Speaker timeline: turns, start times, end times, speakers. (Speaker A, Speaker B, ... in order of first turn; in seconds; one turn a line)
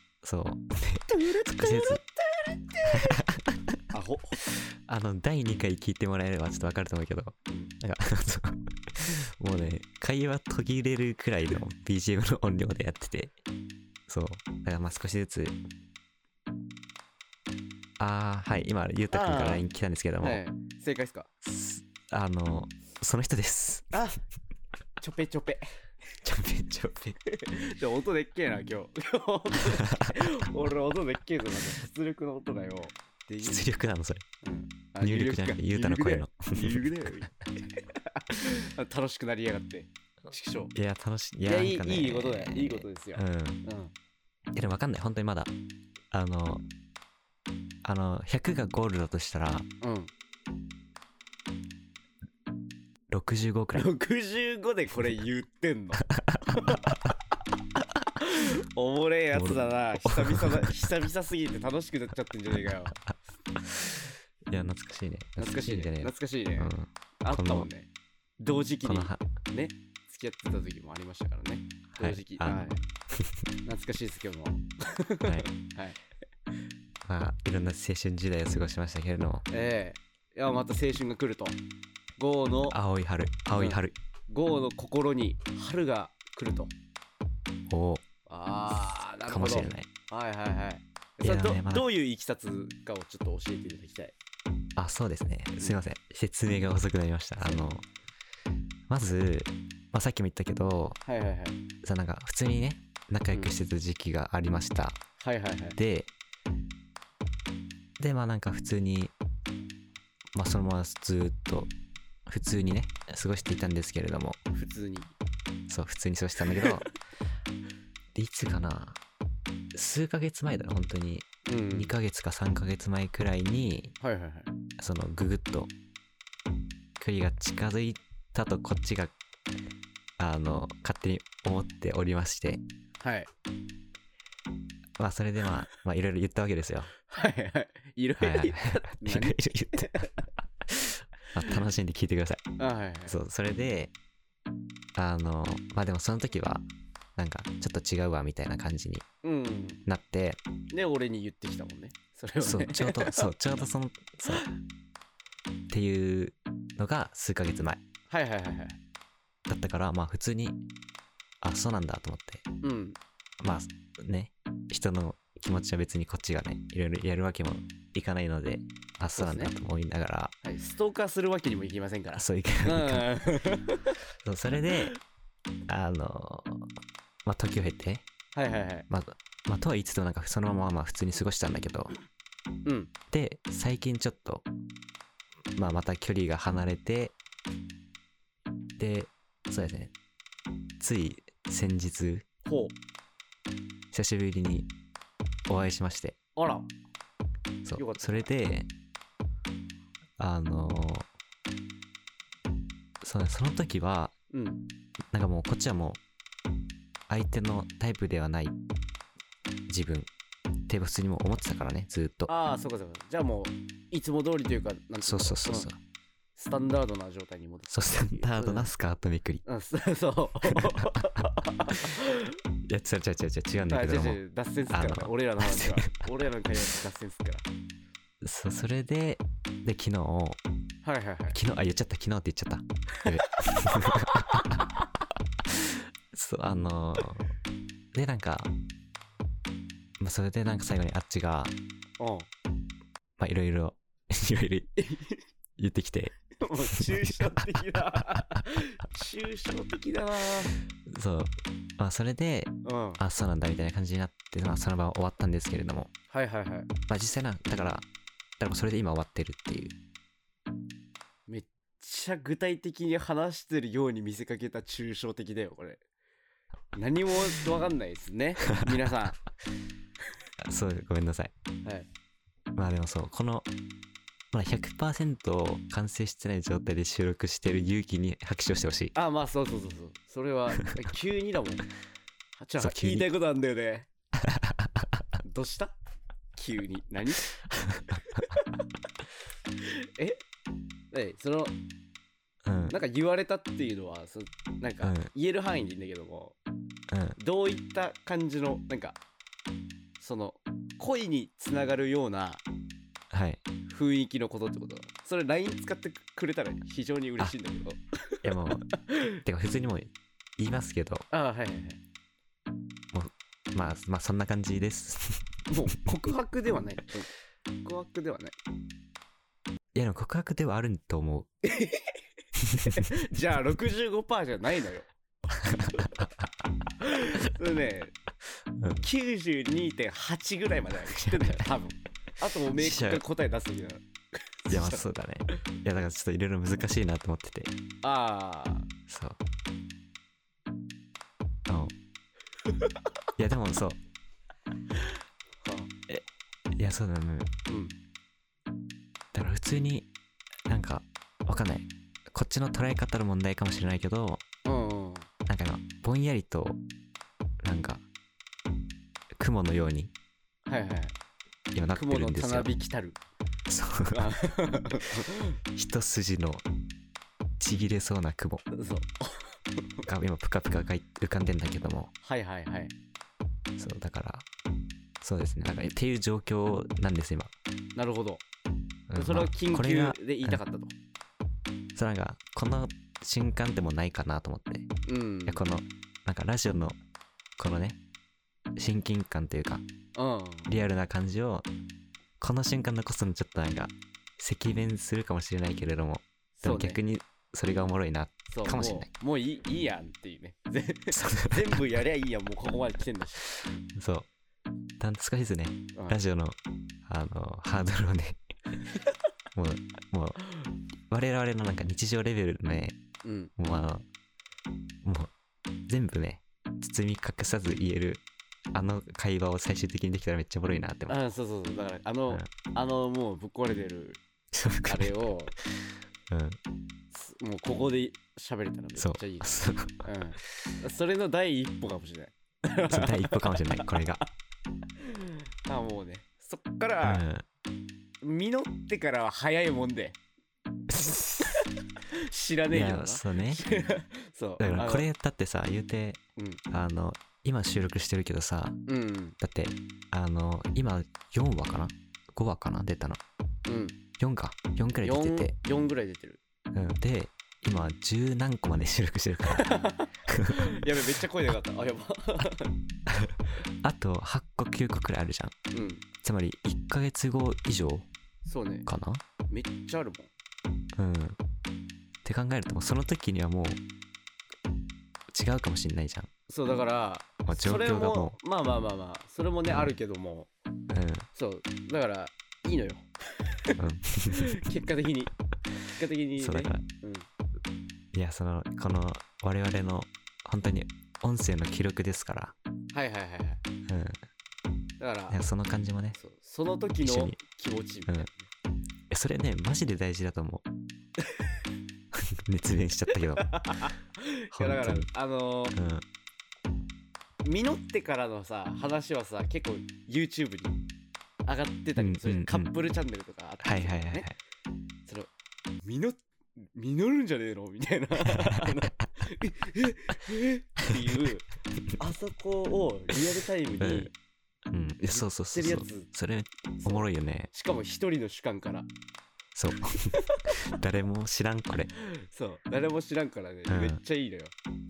Speaker A: 0.2-2.0
Speaker B: 1.1-3.2
Speaker A: 2.9-3.8
Speaker B: 3.9-4.4
Speaker A: 4.5-13.3
Speaker B: 7.5-7.7
Speaker A: 14.1-15.6
Speaker A: 18.0-20.4
Speaker B: 19.1-19.6
Speaker B: 20.2-21.3
Speaker A: 21.4-23.9
Speaker B: 23.9-24.2
Speaker B: 25.0-25.8
Speaker A: 26.2-27.2
Speaker B: 27.3-33.7
Speaker A: 29.7-30.1
Speaker A: 33.4-34.2
Speaker B: 34.4-40.7
Speaker A: 35.0-36.9
Speaker A: 40.7-43.6
Speaker B: 41.5-43.9
Speaker A: 44.5-45.5
Speaker A: 46.1-46.6
Speaker A: 47.8-49.7
Speaker B: 49.8-50.1
Speaker A: 53.1-53.9
Speaker B: 53.8-56.8
Speaker B: 58.2-63.0
Speaker A: 59.3-60.7
Speaker A: 63.6-63.9
Speaker A: 64.5-67.7
Speaker B: 65.4-67.9
Speaker B: 68.4-72.8
Speaker A: 68.8-69.2
Speaker A: 72.0-73.4
Speaker B: 73.7-76.0
Speaker A: 77.0-79.5
Speaker B: 79.5-81.6
Speaker B: 82.2-82.8
Speaker A: 82.7-84.0
Speaker B: 83.5-86.7
Speaker A: 87.7-88.0
Speaker B: 88.3-94.2
Speaker A: 89.3-89.9
Speaker A: 91.2-91.9
Speaker A: 94.8-97.8
Speaker B: 97.4-97.7
Speaker A: 98.9-101.0
Speaker B: 101.0-101.6
Speaker A: 101.8-105.0
Speaker B: 105.2-105.8
Speaker A: 105.8-106.1
Speaker A: 108.0-109.1
Speaker A: 110.3-111.7
Speaker A: 112.3-114.4
Speaker B: 114.5-115.1
Speaker A: 115.7-116.9
Speaker B: 116.5-116.9
Speaker A: 118.2-119.0
Speaker A: 119.7-123.9
Speaker B: 121.5-121.9
Speaker B: 124.0-124.5
Speaker A: 124.8-125.7
Speaker A: 127.0-129.2
Speaker A: 130.2-132.6
Speaker B: 133.0-133.3
Speaker A: 135.0-136.9
Speaker B: 137.1-140.3
Speaker A: 138.2-139.9
Speaker A: 140.7-142.4
Speaker B: 142.6-143.2
Speaker A: 143.1-143.9
Speaker A: 145.0-146.7
Speaker A: 147.2-149.1
Speaker B: 149.2-149.8
Speaker A: 149.9-150.4
Speaker B: 150.7-153.3
Speaker A: 152.4-154.4
Speaker A: 155.7-157.8
Speaker B: 158.1-158.8
Speaker A: 159.5-160.6
Speaker A: 161.4-162.4
Speaker B: 162.6-163.0
Speaker A: 163.4-170.3
Speaker B: 169.1-169.5
Speaker B: 170.4-174.0
Speaker A: 172.2-173.1
Speaker A: 174.2-174.9
Speaker A: 175.7-176.7
Speaker A: 177.2-178.1
Speaker B: 178.3-178.9
Speaker A: 178.9-181.9
Speaker B: 182.7-182.9
Speaker A: 183.1-184.5
Speaker A: 185.6-187.2
Speaker A: 188.8-189.9
Speaker A: 190.8-192.2
Speaker B: 192.4-192.8
Speaker A: 193.9-194.7
Speaker A: 195.5-196.2
Speaker B: 196.4-196.7
Speaker A: 197.7-198.7
Speaker B: 197.8-198.3
Speaker A: 200.2-201.1
Speaker A: 203.0-204.1
Speaker B: 204.3-204.6
Speaker A: 205.1-206.0
Speaker A: 207.1-208.6
Speaker A: 209.7-210.1
Speaker A: 210.7-212.3
Speaker B: 212.3-215.7
Speaker A: 215.0-215.8
Speaker B: 216.4-218.7
Speaker A: 217.7-219.4
Speaker B: 219.4-222.4
Speaker A: 220.5-220.9
Speaker A: 222.7-226.0
Speaker B: 223.7-227.5
Speaker A: 228.2-230.4
Speaker B: 230.8-231.4
Speaker A: 231.3-234.6
Speaker B: 233.0-234.9
Speaker A: 235.5-237.3
Speaker A: 237.9-238.5
Speaker A: 240.0-241.5
Speaker B: 242.0-242.3
Speaker A: 243.2-244.7
Speaker B: 244.8-245.2
Speaker A: 245.6-247.4
Speaker B: 246.3-250.6
Speaker A: 250.9-255.9
Speaker B: 252.6-253.0
Speaker B: 256.1-256.7
Speaker A: 256.9-257.9
Speaker B: 257.5-257.8
Speaker A: 258.4-259.8
Speaker B: 261.3-265.8
Speaker B: 266.8-269.2
Speaker A: 270.4-271.3
Speaker A: 272.6-273.5
Speaker A: 274.3-278.9
Speaker B: 278.9-281.6
Speaker B: 282.4-283.9
Speaker A: 282.6-283.1
Speaker A: 284.2-284.9
Speaker B: 285.2-285.8
Speaker B: 286.4-287.3
Speaker B: 288.1-288.5
Speaker B: 289.6-290.2
Speaker B: 290.9-291.6
Speaker A: 292.4-292.8
Speaker B: 292.7-296.4
Speaker A: 294.8-295.1
Speaker A: 296.9-297.2
Speaker B: 297.2-299.0
Speaker B: 300.0-302.4
Speaker A: 303.1-303.4
Speaker B: 303.7-309.2
Speaker A: 308.2-308.7
Speaker A: 309.2-311.1
Speaker B: 311.1-311.8
Speaker A: 312.9-315.3
Speaker B: 315.5-317.1
Speaker B: 317.6-318.4
Speaker A: 319.7-321.3
Speaker B: 321.4-322.0
Speaker A: 322.6-322.9
Speaker B: 322.6-324.9
Speaker A: 325.4-326.1
Speaker B: 326.8-327.9
Speaker A: 328.6-328.8
Speaker B: 328.8-333.8
Speaker A: 331.0-331.4
Speaker A: 332.6-333.0
Speaker B: 334.4-334.8
Speaker A: 334.5-337.5
Speaker B: 337.8-338.7
Speaker A: 338.9-339.2
Speaker A: 341.5-341.7
Speaker A: 343.2-343.8
Speaker B: 345.4-345.7
Speaker A: 346.6-347.3
Speaker B: 347.5-347.8
Speaker A: 349.1-349.9
Speaker A: 350.5-354.2
Speaker B: 354.4-355.1
Speaker A: 355.3-356.6
Speaker A: 357.4-357.8
Speaker A: 359.2-359.9
Speaker B: 360.5-360.9
Speaker A: 361.5-362.5
Speaker B: 361.7-363.0
Speaker A: 363.5-364.0
Speaker B: 363.9-365.4
Speaker A: 365.6-366.4
Speaker A: 367.4-368.4
Speaker B: 368.5-369.9
Speaker A: 369.9-371.9
Speaker B: 372.0-372.7
Speaker A: 373.6-374.3
Speaker A: 375.0-377.3
Speaker B: 377.8-378.2
Speaker A: 378.9-380.4
Speaker B: 378.9-380.7
Speaker A: 381.8-384.7
Speaker B: 384.9-385.4
Speaker A: 385.3-386.8
Speaker A: 387.4-387.8
Speaker A: 388.6-389.6
Speaker B: 389.9-390.5
Speaker A: 390.5-391.5
Speaker A: 392.2-398.9
Speaker B: 396.4-396.8
Speaker B: 398.3-403.4
Speaker A: 400.9-401.5
Speaker A: 403.8-404.1
Speaker A: 404.8-408.2
Speaker A: 409.4-410.2
Speaker A: 410.9-412.8
Speaker B: 413.0-413.3
Speaker A: 413.4-413.9
Speaker A: 414.8-415.1
Speaker A: 415.7-421.0
Speaker B: 420.9-424.0
Speaker A: 424.3-424.9
Speaker B: 424.7-425.4
Speaker A: 426.1-426.4
Speaker B: 426.9-433.9
Speaker A: 428.8-429.9
Speaker A: 432.7-434.0
Speaker B: 434.8-437.0
Speaker A: 436.8-437.2
Speaker B: 438.0-440.0
Speaker B: 440.8-444.9
Speaker A: 442.5-443.4
Speaker A: 444.4-448.6
Speaker B: 448.7-449.2
Speaker A: 449.2-453.0
Speaker B: 453.5-453.8
Speaker A: 454.0-455.4
Speaker B: 454.8-456.2
Speaker A: 456.5-459.5
Speaker B: 459.3-462.6
Speaker A: 460.1-460.5
Speaker A: 462.9-465.3
Speaker B: 465.5-465.9
Speaker A: 466.0-467.9
Speaker B: 468.2-468.7
Speaker A: 468.7-469.0
Speaker B: 469.3-470.1
Speaker A: 470.8-471.2
Speaker A: 472.0-473.6
Speaker A: 475.1-476.1
Speaker B: 476.3-480.3
Speaker A: 477.3-478.2
Speaker A: 479.5-479.8
Speaker A: 480.7-481.1
Speaker B: 481.1-483.6
Speaker A: 483.6-484.4
Speaker B: 484.1-485.1
Speaker B: 485.7-487.1
Speaker A: 486.2-486.6
Speaker A: 487.9-492.4
Speaker B: 492.7-493.4
Speaker A: 493.7-494.0
Speaker B: 494.8-495.2
Speaker A: 495.1-496.0
Speaker B: 495.9-498.3
Speaker A: 496.8-497.2
Speaker A: 498.9-500.4
Speaker B: 501.1-501.3
Speaker A: 501.9-503.4
Speaker B: 503.2-505.6
Speaker A: 504.3-504.9
Speaker A: 505.5-505.9
Speaker B: 507.2-510.6
Speaker B: 511.3-514.1
Speaker A: 511.8-512.5
Speaker A: 513.4-514.2
Speaker B: 515.6-523.9
Speaker A: 518.1-518.5
Speaker A: 523.6-523.9
Speaker A: 524.5-527.3
Speaker B: 524.8-525.9
Speaker B: 526.6-528.7
Speaker A: 529.4-531.7
Speaker B: 529.9-530.6
Speaker B: 531.8-534.3
Speaker A: 533.5-533.8